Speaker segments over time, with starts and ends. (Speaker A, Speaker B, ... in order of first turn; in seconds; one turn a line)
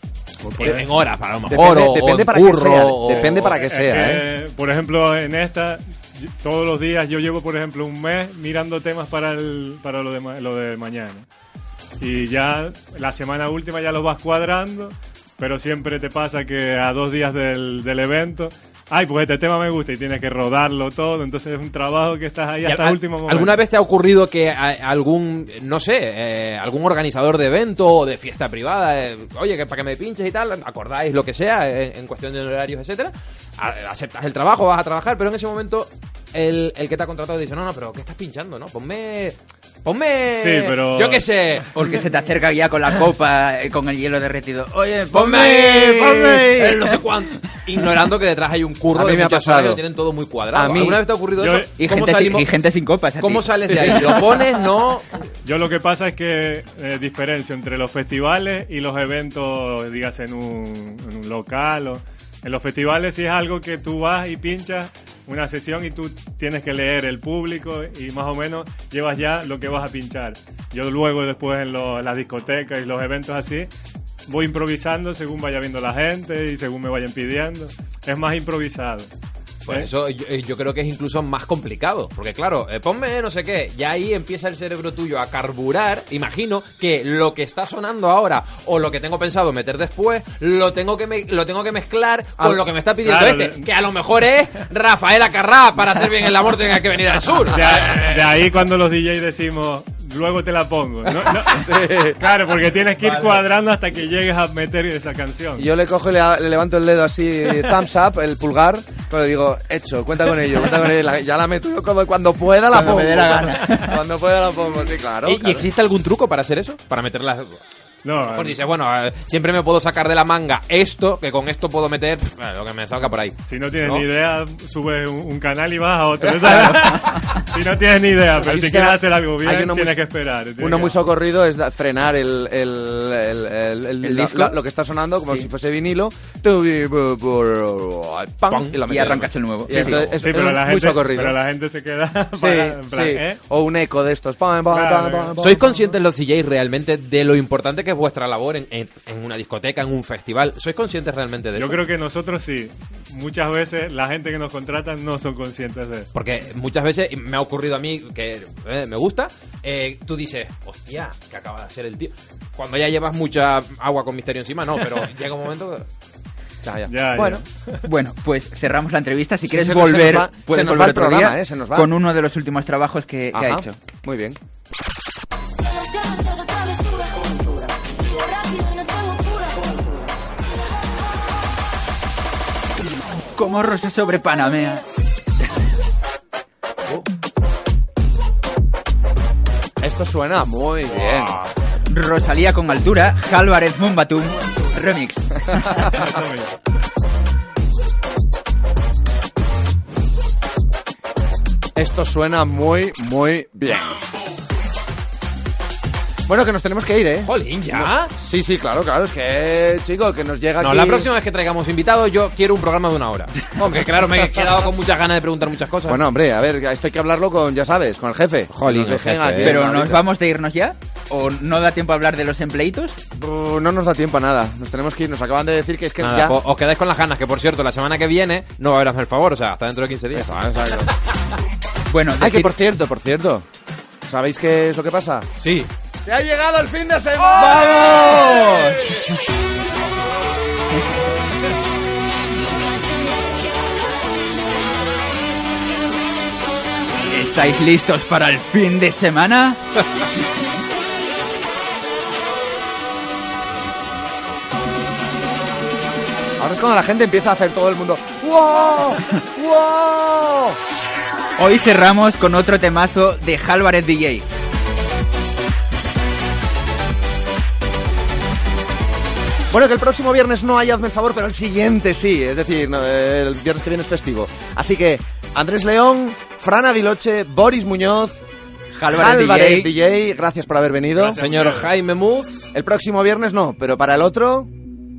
Speaker A: 0.4-0.8
Speaker B: 0.6-3.6
Speaker A: 1.5-4.2
Speaker C: 3.5-11.3
Speaker C: 12.0-23.6
Speaker B: 22.6-41.7
Speaker C: 40.4-41.3
Speaker D: 41.7-47.0
Speaker B: 45.1-52.5
Speaker A: 48.9-49.8
Speaker A: 50.5-51.0
Speaker C: 51.4-51.7
Speaker D: 51.8-54.0
Speaker B: 53.2-55.3
Speaker A: 53.7-54.4
Speaker C: 55.5-73.7
Speaker C: 74.3-79.1
Speaker B: 79.7-98.5
Speaker C: 93.0-93.7
Speaker C: 97.5-105.7
Speaker A: 101.5-102.2
Speaker A: 105.6-115.7
Speaker D: 112.7-114.0
Speaker B: 115.2-117.6
Speaker C: 118.0-118.6
Speaker B: 118.3-124.1
Speaker C: 123.5-131.0
Speaker B: 126.2-127.4
Speaker A: 128.4-130.0
Speaker A: 130.6-141.4
Speaker D: 134.0-134.6
Speaker B: 138.5-140.1
Speaker D: 138.8-140.0
Speaker C: 140.2-143.4
Speaker A: 142.4-145.7
Speaker C: 144.7-145.9
Speaker B: 145.4-151.8
Speaker C: 151.6-156.1
Speaker B: 156.1-165.9
Speaker A: 166.7-167.4
Speaker C: 166.9-167.8
Speaker D: 167.8-173.8
Speaker A: 169.5-171.9
Speaker A: 173.3-174.4
Speaker D: 183.3-184.8
Speaker A: 189.8-191.4
Speaker B: 190.9-191.5
Speaker D: 191.9-195.9
Speaker C: 195.8-196.5
Speaker A: 201.8-204.0
Speaker A: 206.3-211.1
Speaker B: 207.2-208.1
Speaker B: 210.6-216.0
Speaker A: 215.9-220.0
Speaker B: 218.5-219.6
Speaker D: 219.4-223.0
Speaker A: 223.2-226.4
Speaker B: 226.0-230.4
Speaker A: 230.1-230.9
Speaker D: 231.9-232.5
Speaker A: 232.2-233.5
Speaker A: 234.1-235.3
Speaker B: 235.4-235.7
Speaker A: 236.1-239.0
Speaker B: 237.3-238.2
Speaker D: 237.6-239.0
Speaker D: 247.1-249.6
Speaker A: 256.4-260.6
Speaker D: 261.4-264.3
Speaker A: 269.5-278.2
Speaker D: 278.7-279.7
Speaker A: 278.9-281.2
Speaker B: 281.0-282.5
Speaker C: 281.2-281.6
Speaker A: 282.5-284.5